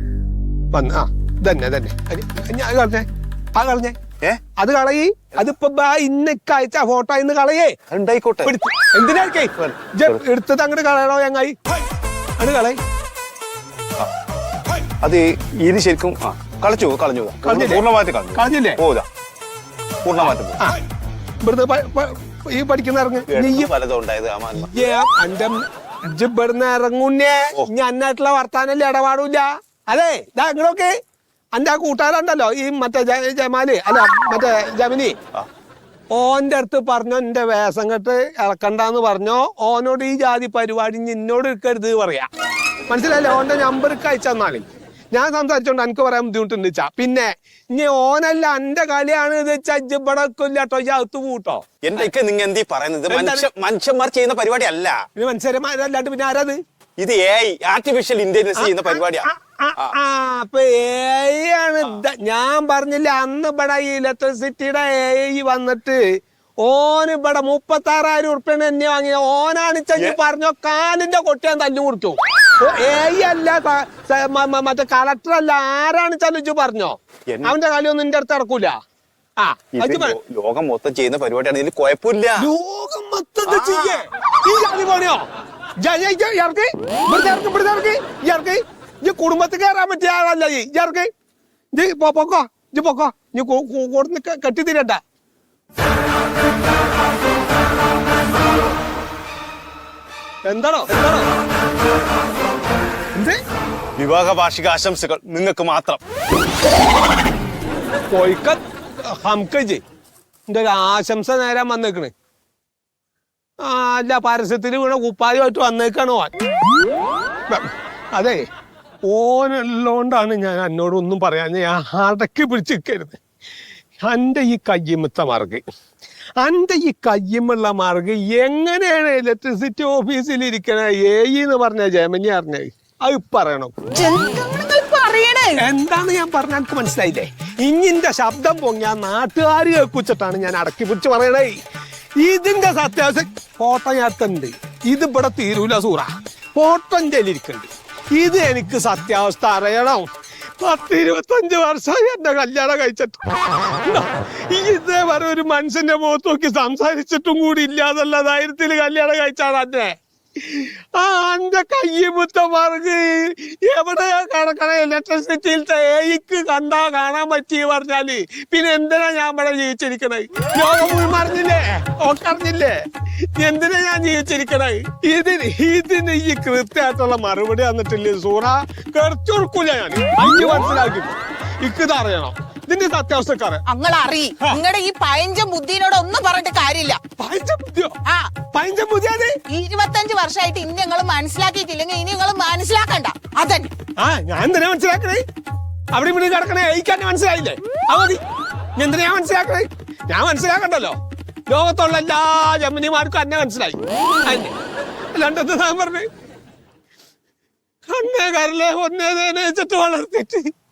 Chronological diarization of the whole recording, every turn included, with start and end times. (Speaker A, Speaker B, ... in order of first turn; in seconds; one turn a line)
Speaker A: 0.7-4.0
Speaker A: 4.6-7.8
Speaker B: 7.9-8.5
Speaker A: 8.4-11.6
Speaker B: 9.6-10.2
Speaker A: 12.4-12.8
Speaker B: 15.0-19.1
Speaker A: 17.4-17.8
Speaker A: 18.3-18.8
Speaker B: 20.0-20.6
Speaker A: 21.4-23.7
Speaker B: 23.3-24.7
Speaker A: 24.6-30.9
Speaker A: 31.5-35.2
Speaker A: 36.1-42.3
Speaker A: 42.9-51.6
Speaker B: 51.8-55.0
Speaker A: 53.1-53.5
Speaker A: 55.1-56.6
Speaker B: 57.0-59.9
Speaker A: 58.6-66.0
Speaker A: 66.6-78.8
Speaker A: 79.4-80.2
Speaker B: 79.8-82.5
Speaker A: 82.4-85.2
Speaker B: 83.5-84.0
Speaker A: 85.8-91.1
Speaker A: 91.7-95.0
Speaker A: 100.5-101.3
Speaker B: 104.0-106.0
Speaker A: 108.1-109.8
Speaker A: 110.5-112.1
Speaker A: 113.6-116.3
Speaker A: 117.5-118.4
Speaker A: 119.0-123.2
Speaker A: 124.0-125.6
Speaker A: 126.4-133.7
Speaker C: 133.9-135.6
Speaker A: 135.6-141.6
Speaker A: 142.2-150.1
Speaker A: 150.6-153.3
Speaker A: 153.8-172.8
Speaker A: 173.3-183.6
Speaker C: 183.7-187.0
Speaker A: 187.2-187.9
Speaker C: 188.1-188.3
Speaker A: 188.4-189.4
Speaker C: 189.5-193.7
Speaker A: 194.0-195.2
Speaker A: 195.9-198.2
Speaker A: 198.8-201.0
Speaker A: 201.5-204.5
Speaker A: 205.1-206.1
Speaker A: 207.9-210.5